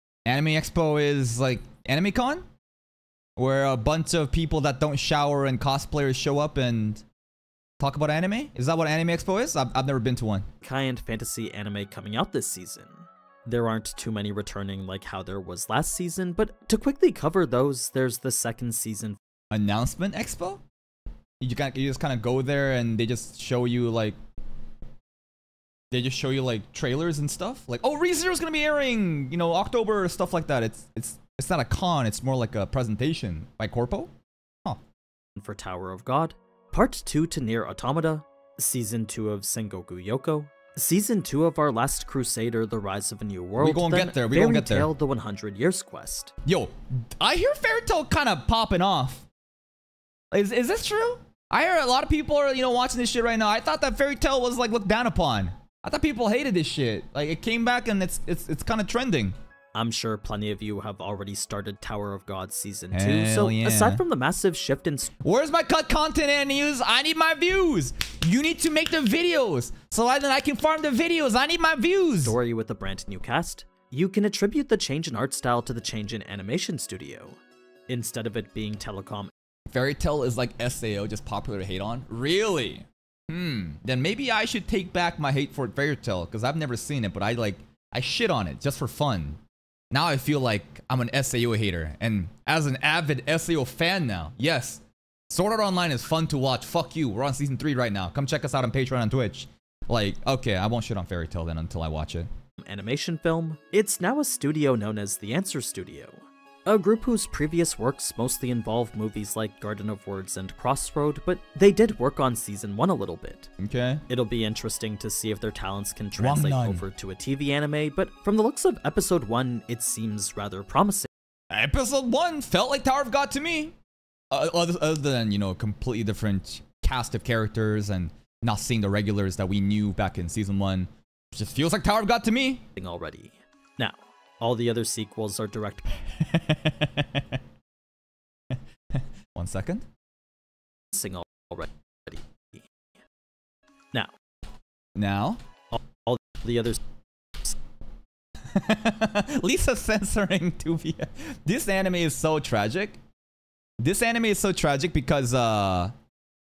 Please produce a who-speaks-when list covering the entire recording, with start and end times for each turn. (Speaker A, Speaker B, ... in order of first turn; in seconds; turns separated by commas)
Speaker A: 0.3-2.5, Speaker A: 3.4-7.0, Speaker A: 7.8-10.5, Speaker B: 10.6-19.2, Speaker A: 19.5-20.6, Speaker A: 21.4-24.2, Speaker A: 25.9-34.1, Speaker B: 35.4-46.3, Speaker A: 43.6-44.9, Speaker A: 46.5-49.3, Speaker A: 50.3-59.4, Speaker B: 59.8-65.1, Speaker A: 62.9-64.0, Speaker A: 65.2-72.4, Speaker B: 72.2-79.3, Speaker A: 79.7-89.4, Speaker A: 89.9-102.3, Speaker B: 102.6-113.5, Speaker A: 113.6-114.0, Speaker B: 114.1-121.1, Speaker A: 116.2-116.8, Speaker A: 121.5-123.8, Speaker A: 124.3-132.7, Speaker B: 132.8-135.9, Speaker A: 136.0-137.4, Speaker A: 138.5-139.9, Speaker B: 140.9-142.7, Speaker A: 145.0-145.4, Speaker B: 145.7-146.8, Speaker A: 148.5-153.0, Speaker A: 153.8-155.9